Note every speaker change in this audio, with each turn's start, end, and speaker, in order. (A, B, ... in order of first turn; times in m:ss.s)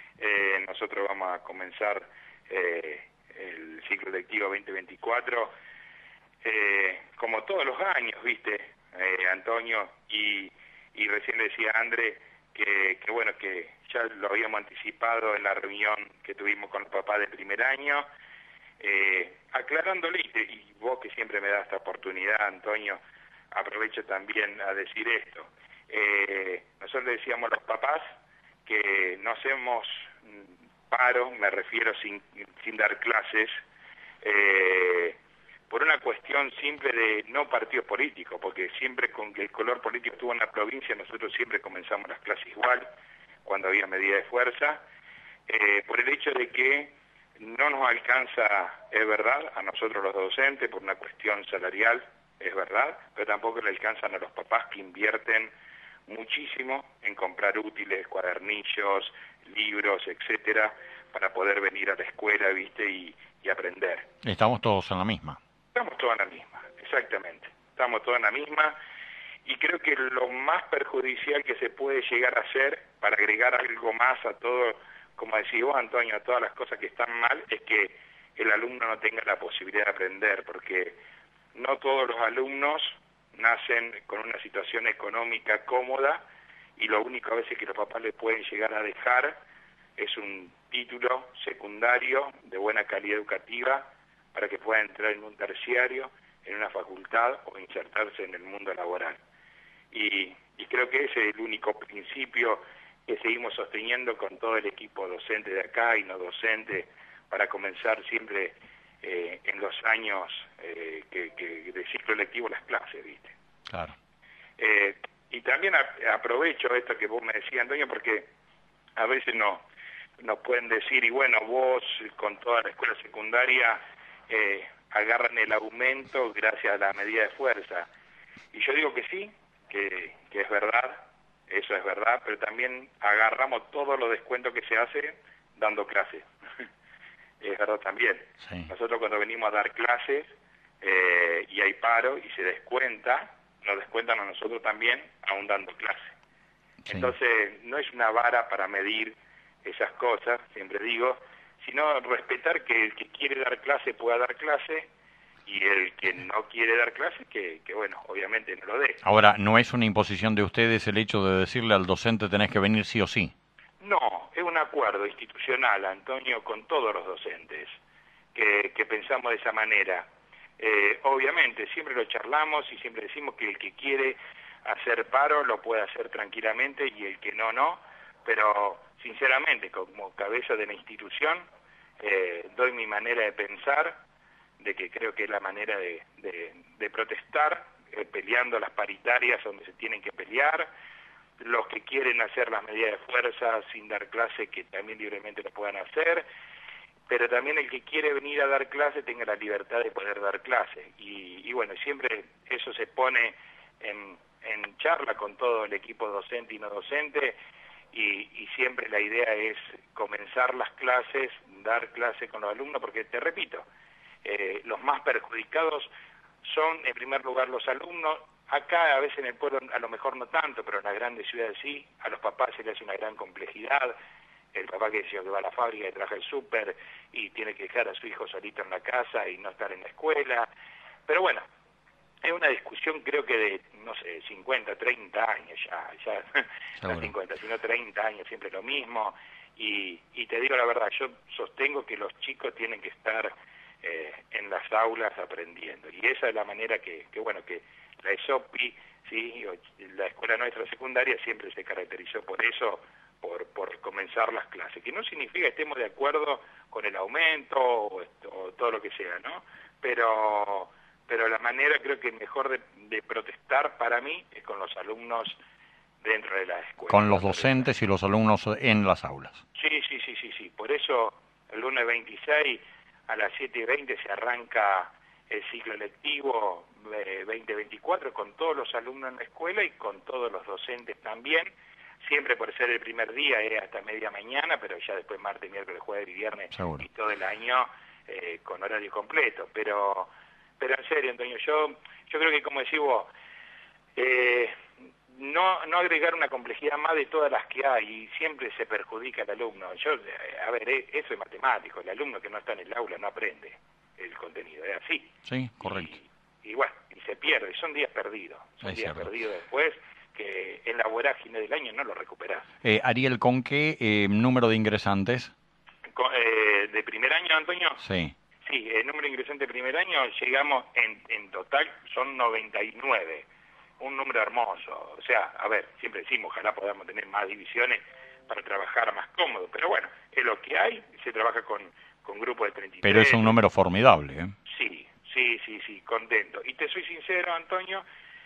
0:00.2-0:05.5 A
0:06.4-0:18.0 A
0:18.8-0:23.0 A
0:23.5-0:28.0 A
0:28.6-0:33.5 A
0:34.2-0:35.2 A
0:35.7-0:42.8 A
0:43.4-0:44.8 A
0:45.5-0:55.5 A
0:56.1-1:04.1 A
1:04.2-1:05.4 B
1:05.8-1:08.8 A
1:09.4-1:21.0 A
1:21.6-1:26.2 A
1:26.8-1:29.4 A
1:30.0-1:39.2 A
1:39.9-1:53.4 A
1:53.7-1:54.0 B
1:54.6-1:58.3 A
1:59.0-1:59.6 A
2:00.2-2:07.9 A
2:08.5-2:16.3 A
2:17.4-2:20.3 A
2:18.4-2:18.7 B
2:20.8-2:26.1 A
2:26.8-2:27.1 B
2:26.9-2:34.9 A
2:35.5-2:39.0 A
2:39.0-2:43.3 B
2:43.8-2:47.7 A
2:48.3-2:50.1 A
2:50.6-3:01.5 A
3:02.0-3:04.0 A
3:04.6-3:10.7 A
3:11.4-3:16.3 A
3:17.1-3:27.4 A
3:27.9-3:33.7 A
3:34.2-3:35.9 A
3:36.4-3:43.9 A
3:44.5-3:50.5 A
3:51.1-3:51.4 A
3:52.2-4:03.3 A
3:56.8-3:57.1 B
4:03.8-4:25.4 A
4:26.0-4:27.7 A
4:26.9-4:29.4 B
4:29.6-4:53.1 A
4:46.5-4:46.8 B
4:54.0-4:54.6 A
4:55.1-5:12.5 A
5:05.3-5:05.9 B
5:08.6-5:09.1 B
5:12.6-5:15.3 B
5:15.9-5:17.8 A
5:17.8-5:18.1 B
5:18.4-5:23.3 A
5:23.8-5:33.4 A
5:32.8-5:34.3 B
5:34.5-5:37.8 A